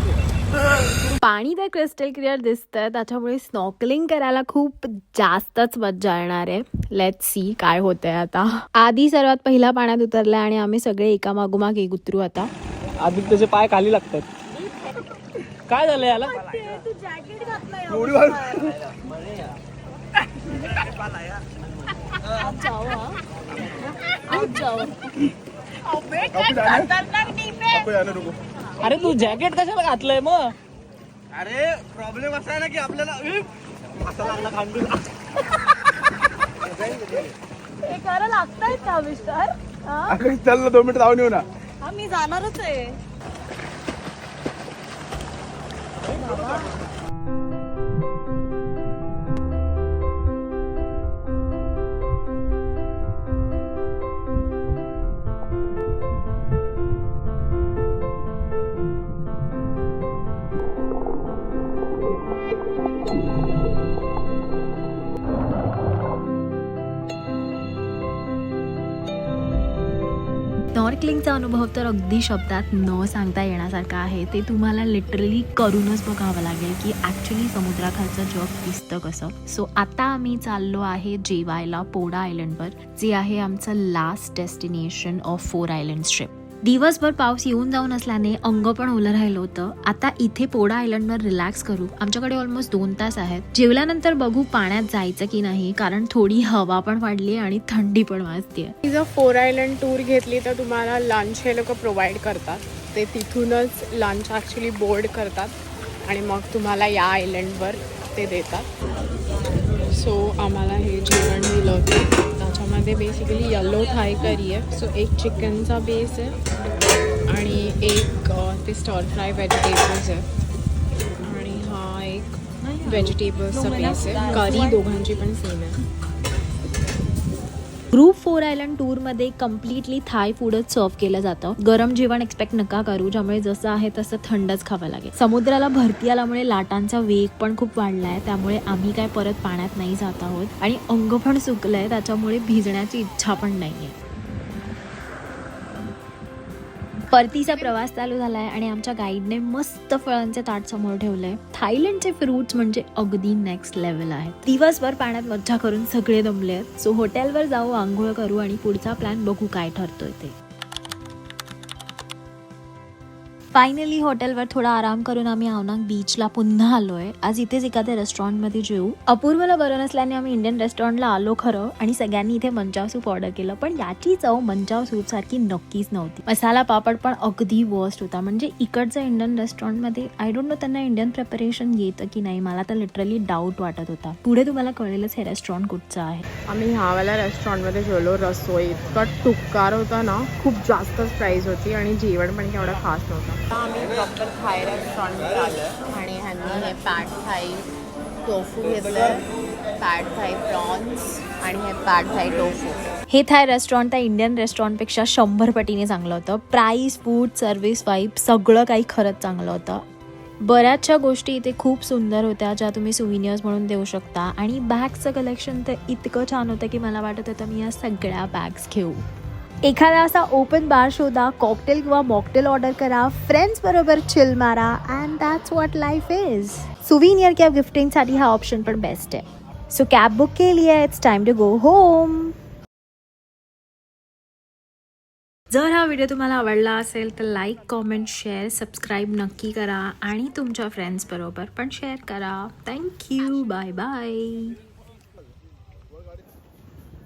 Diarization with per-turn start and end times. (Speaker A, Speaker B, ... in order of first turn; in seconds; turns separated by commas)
Speaker A: 1.1-12.5, Speaker B: 13.0-14.3, Speaker B: 15.7-16.4, Speaker C: 16.4-18.7, Speaker D: 17.9-18.8, Speaker C: 22.4-23.2, Speaker C: 24.3-24.9, Speaker C: 26.2-27.5, Speaker D: 26.4-26.9, Speaker E: 27.2-27.6, Speaker D: 27.7-28.4, Speaker B: 28.8-30.6, Speaker B: 33.1-33.4, Speaker B: 34.3-34.9, Speaker C: 37.9-40.2, Speaker D: 40.1-41.4, Speaker C: 41.8-43.0, Speaker C: 46.2-46.6, Speaker A: 70.8-98.8, Speaker E: 98.8-108.7, Speaker E: 109.9-116.4, Speaker E: 117.3-120.3, Speaker E: 121.2-125.8, Speaker C: 123.5-124.8, Speaker A: 127.9-143.9, Speaker A: 147.1-160.4, Speaker A: 163.5-186.3, Speaker E: 186.5-197.7, Speaker E: 198.2-199.2, Speaker E: 199.8-202.9, Speaker A: 203.1-209.8, Speaker A: 210.4-219.0, Speaker A: 219.6-232.3, Speaker A: 235.5-244.6